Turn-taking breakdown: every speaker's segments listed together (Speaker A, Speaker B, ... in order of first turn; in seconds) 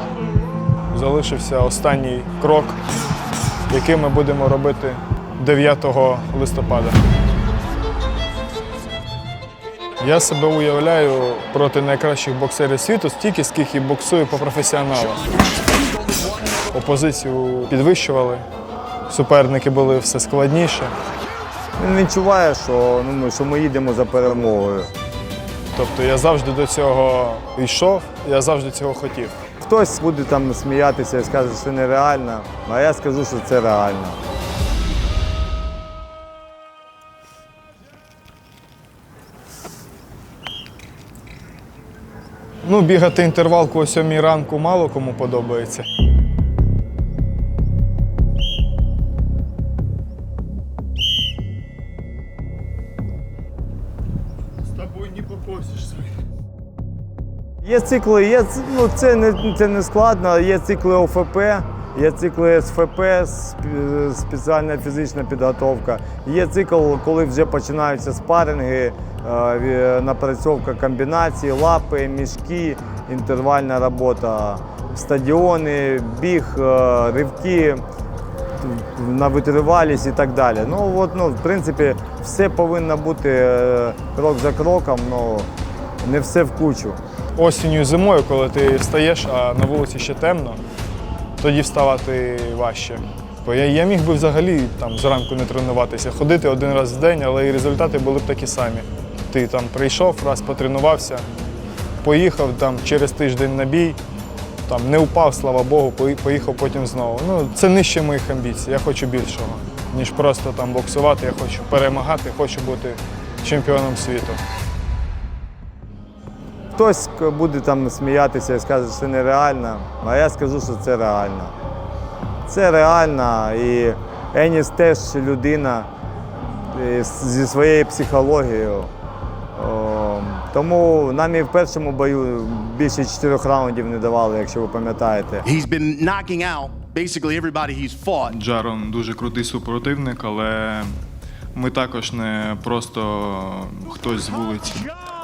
Speaker A: 0.9-2.8, 3.7-7.0, 10.0-15.2, 16.7-18.4, 19.1-20.9, 25.7-29.3, 42.6-45.9, 87.3-90.6, 91.4-101.2, 102.0-104.0, 104.6-114.4, 138.3-140.9, 141.5-145.0
Speaker B: 21.8-24.9, 29.6-34.2, 57.6-77.8, 78.6-85.5, 86.0-87.0, 116.7-121.5, 122.5-125.9, 126.6-128.9, 129.5-135.4
Speaker C: 135.4-138.3